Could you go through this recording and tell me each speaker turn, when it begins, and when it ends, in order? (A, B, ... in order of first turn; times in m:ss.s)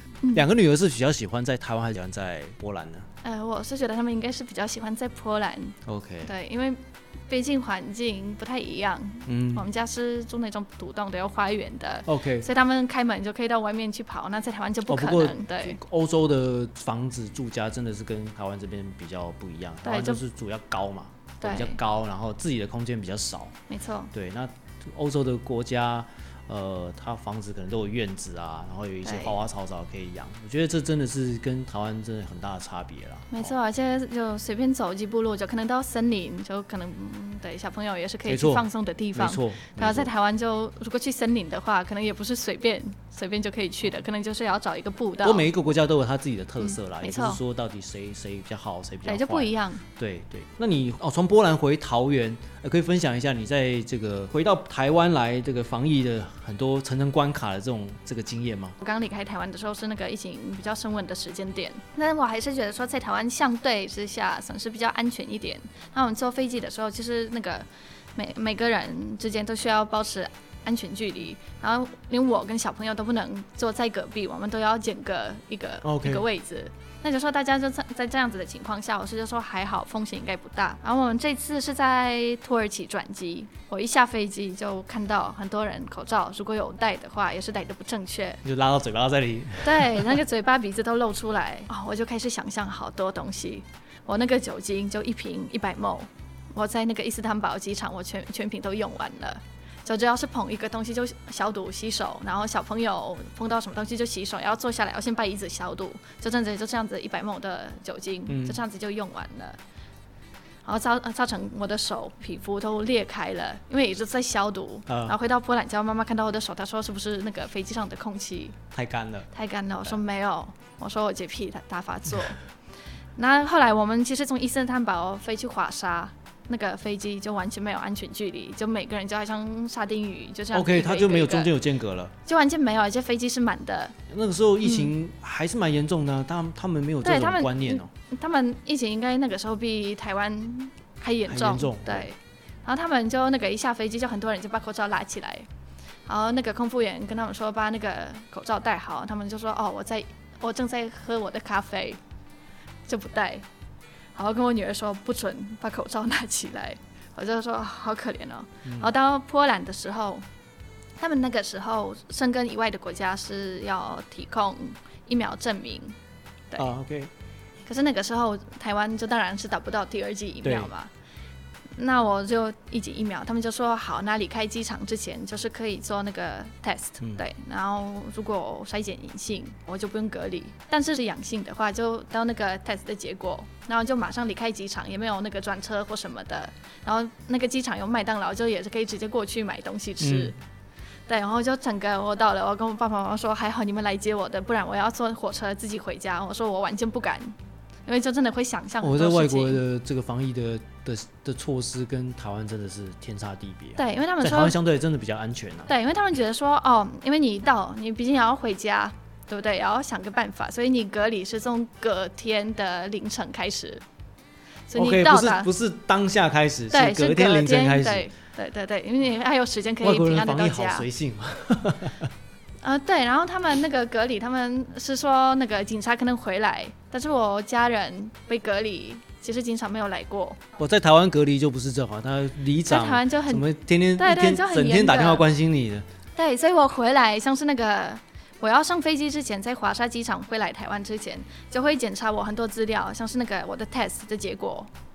0:00.3-0:03.1 A
0:03.2-0:15.8 B
0:05.8-0:06.3 A
0:09.3-0:09.7 A
0:12.0-0:12.5 A
0:14.9-0:23.5 A
0:19.8-0:20.2 B
0:21.4-0:21.8 B
0:23.7-0:24.1 B
0:24.1-0:33.5 A
0:29.0-0:29.4 B
0:33.3-0:45.5 B
0:38.2-0:40.1 A
0:45.2-0:58.8 A
0:46.6-0:47.4 B
0:49.0-0:49.8 B
0:58.8-1:28.4 B
1:15.8-1:16.2 A
1:28.4-1:30.2 A
1:29.6-1:49.6 B
1:48.3-1:48.6 A
1:50.6-1:58.6 B
1:54.9-1:55.2 A
1:58.7-1:59.3 A
1:59.3-2:02.4 B
2:03.2-2:11.5 B
2:10.5-2:12.1 A
2:12.2-2:14.0 B
2:14.1-2:17.9 A
2:14.6-2:14.9 B
2:17.0-2:25.5 B
2:21.3-2:22.1 A
2:26.1-2:32.0 B
2:32.9-2:33.4 B
2:34.1-2:40.2 B
2:38.6-2:38.9 A
2:41.0-2:46.0 B
2:46.6-2:47.1 A
2:47.6-2:50.9 B
2:50.4-2:50.7 A
2:51.8-3:10.4 B
3:10.0-3:10.3 A
3:11.1-3:17.3 B
3:17.8-3:19.6 B
3:18.8-3:25.7 A
3:23.8-3:24.6 B
3:25.7-3:33.8 B
3:34.7-3:35.5 B
3:34.7-3:38.1 A
3:36.7-3:40.9 B
3:39.8-3:42.1 A
3:42.6-3:50.4 B
3:50.6-3:55.8 A
3:52.7-3:55.2 B
3:56.2-4:04.7 B